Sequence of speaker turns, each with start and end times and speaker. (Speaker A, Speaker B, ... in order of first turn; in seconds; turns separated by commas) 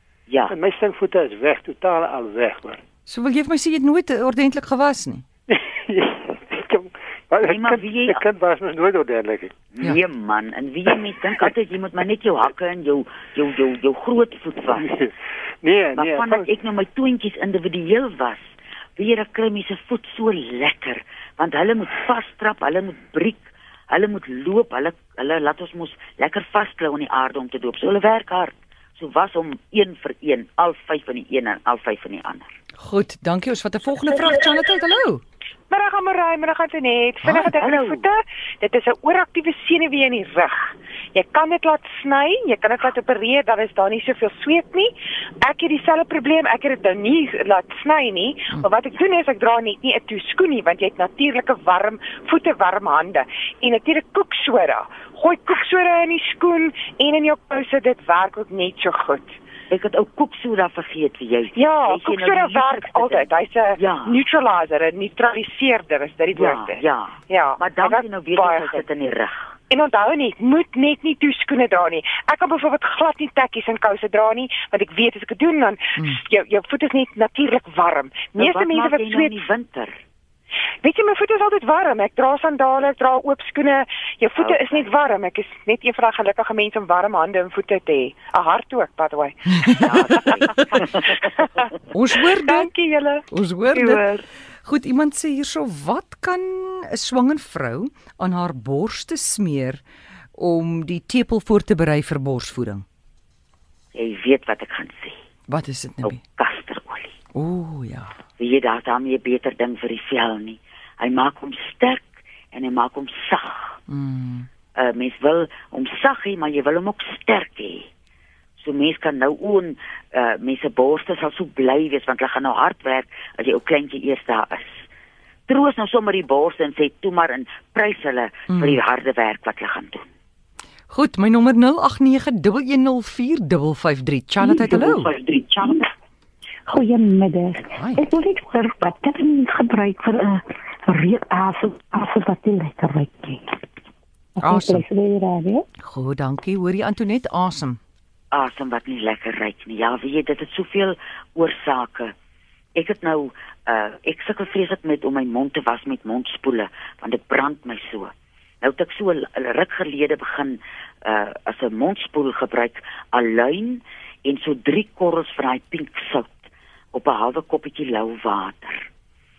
Speaker A: 0.3-0.5, Speaker B: 0.5-2.8, Speaker C: 3.0-5.2, Speaker B: 5.5-9.5, Speaker A: 7.4-8.2, Speaker A: 9.7-14.9, Speaker B: 14.8-15.1, Speaker B: 15.6-16.5, Speaker A: 15.9-32.5, Speaker C: 32.8-35.2, Speaker D: 35.7-44.9, Speaker A: 37.5-38.0, Speaker D: 45.4-59.4, Speaker A: 59.7-64.2, Speaker D: 61.5-68.8, Speaker A: 66.3-69.5, Speaker D: 69.7-79.4, Speaker A: 78.3-80.0, Speaker D: 80.8-91.6, Speaker A: 84.4-84.9, Speaker A: 89.8-91.2, Speaker C: 91.9-92.7, Speaker D: 92.4-94.2, Speaker C: 93.3-94.0, Speaker C: 94.6-99.8, Speaker C: 100.3-102.8, Speaker A: 103.9-105.2, Speaker C: 105.5-106.2, Speaker A: 106.0-107.1, Speaker C: 107.3-108.1, Speaker A: 108.4-113.8, Speaker C: 113.9-114.5, Speaker A: 114.7-117.9, Speaker A: 118.6-124.8, Speaker A: 125.5-130.1, Speaker C: 128.5-128.8, Speaker C: 130.9-135.1, Speaker E: 134.4-135.9, Speaker E: 136.7-143.4, Speaker C: 137.6-138.1, Speaker E: 144.3-145.6, Speaker C: 144.4-144.8, Speaker C: 145.8-147.8, Speaker A: 148.3-152.1, Speaker A: 152.7-168.9